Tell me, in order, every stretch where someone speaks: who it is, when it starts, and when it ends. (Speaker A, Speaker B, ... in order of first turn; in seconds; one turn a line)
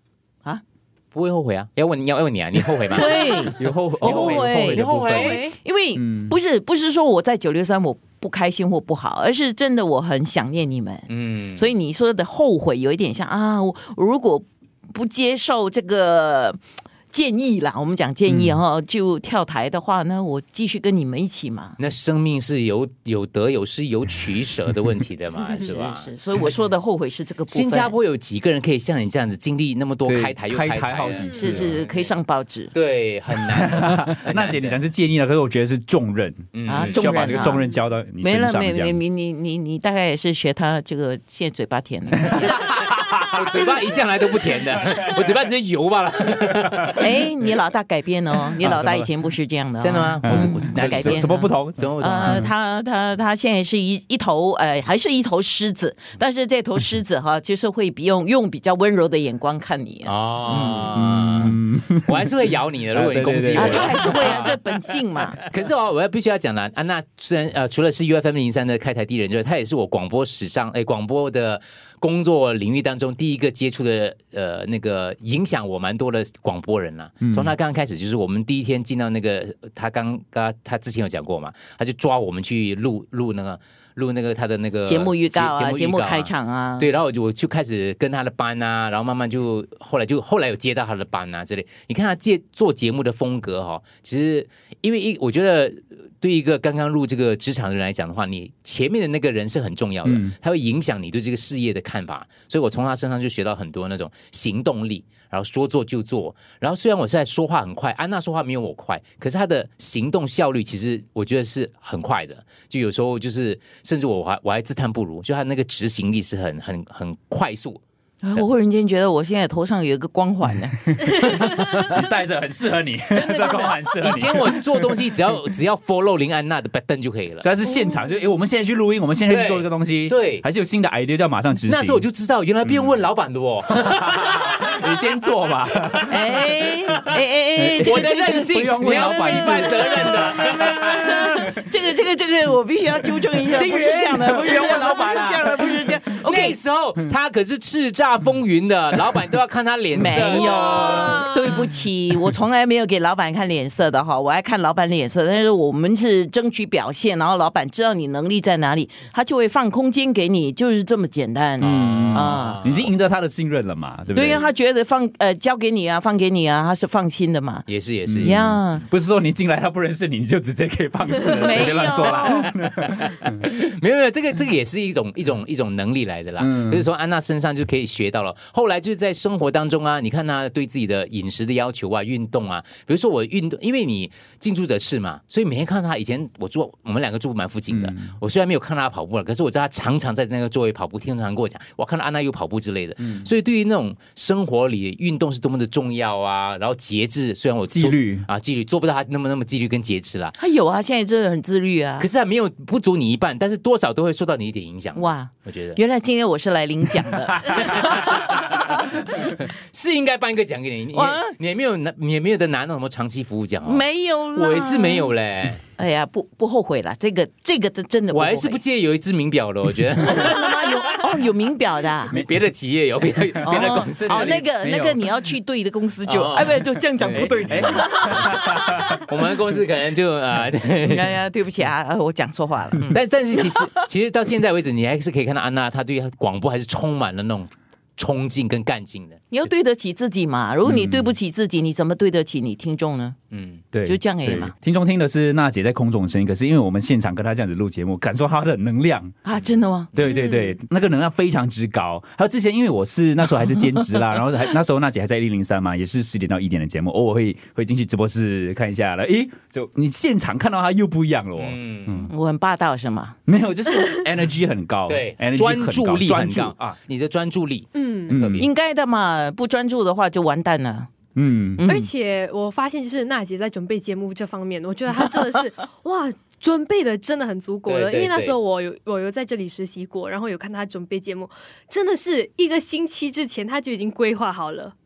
Speaker A: 1.1-3.2
Speaker B: 2.9-16.6
Speaker C: 3.5-5.5
Speaker A: 4.0-5.5
Speaker D: 5.1-5.5
Speaker C: 6.0-6.4
Speaker A: 11.1-11.7
Speaker B: 17.1-21.8
Speaker C: 18.3-18.6
Speaker A: 21.8-26.1
Speaker B: 25.4-27.9
Speaker A: 27.5-32.2
Speaker C: 30.1-31.8
Speaker D: 31.2-31.6
Speaker B: 31.3-32.7
Speaker A: 32.7-34.8
Speaker C: 33.6-39.0
Speaker A: 36.5-37.5
Speaker B: 36.7-42.4
Speaker A: 42.2-47.2
Speaker B: 47.0-60.9
Speaker C: 48.7-49.1
Speaker A: 49.8-52.5
Speaker C: 50.2-52.5
Speaker A: 60.0-64.6
Speaker C: 60.9-62.3
Speaker C: 62.9-64.4
Speaker B: 63.5-65.4
Speaker A: 65.3-117.8
Speaker C: 77.2-77.5
Speaker B: 84.8-86.9
Speaker C: 100.0-100.3
Speaker B: 118.2-121.1
Speaker C: 121.0-124.9
Speaker A: 123.1-127.5
Speaker C: 127.4-132.0
Speaker A: 129.3-130.4
Speaker A: 131.6-134.9
Speaker C: 132.7-132.9
Speaker C: 134.0-136.4
Speaker A: 135.9-136.9
Speaker B: 136.1-140.0
Speaker C: 137.6-141.5
Speaker A: 137.8-141.2
Speaker B: 140.8-146.6
Speaker A: 143.5-145.6
Speaker A: 146.2-151.7
Speaker B: 149.9-162.6
Speaker A: 161.6-162.9
Speaker C: 161.6-164.4
Speaker B: 164.1-167.7
Speaker A: 167.7-168.5
Speaker C: 168.1-173.3
Speaker B: 168.2-168.8
Speaker B: 171.3-172.5
Speaker A: 173.0-200.4
Speaker C: 176.4-176.8
Speaker C: 187.7-188.1
Speaker C: 197.7-198.3
Speaker B: 200.4-202.1
Speaker A: 202.0-205.8
Speaker B: 204.9-208.6
Speaker A: 207.5-213.8
Speaker B: 210.9-211.3
Speaker B: 213.7-215.1
Speaker A: 214.3-215.6
Speaker B: 215.8-218.6
Speaker A: 218.1-220.8
Speaker B: 220.1-222.2
Speaker A: 222.1-224.5
Speaker C: 223.3-225.2
Speaker B: 223.4-228.8
Speaker A: 226.1-227.6
Speaker C: 226.8-228.8
Speaker A: 228.2-231.2
Speaker B: 230.9-233.0
Speaker A: 232.9-239.5
Speaker B: 239.3-243.2
Speaker C: 240.7-241.1
Speaker A: 243.3-243.6
Speaker C: 243.7-249.2
Speaker B: 243.9-244.5
Speaker B: 249.2-249.9
Speaker C: 249.9-262.1
Speaker D: 250.0-250.6
Speaker A: 261.4-262.1
Speaker B: 262.1-263.2
Speaker C: 263.3-266.8
Speaker A: 264.9-268.5
Speaker D: 267.8-268.1
Speaker C: 268.1-268.5
Speaker B: 268.4-270.9
Speaker C: 271.2-271.8
Speaker B: 271.6-271.9
Speaker D: 271.7-284.7
Speaker A: 277.7-278.4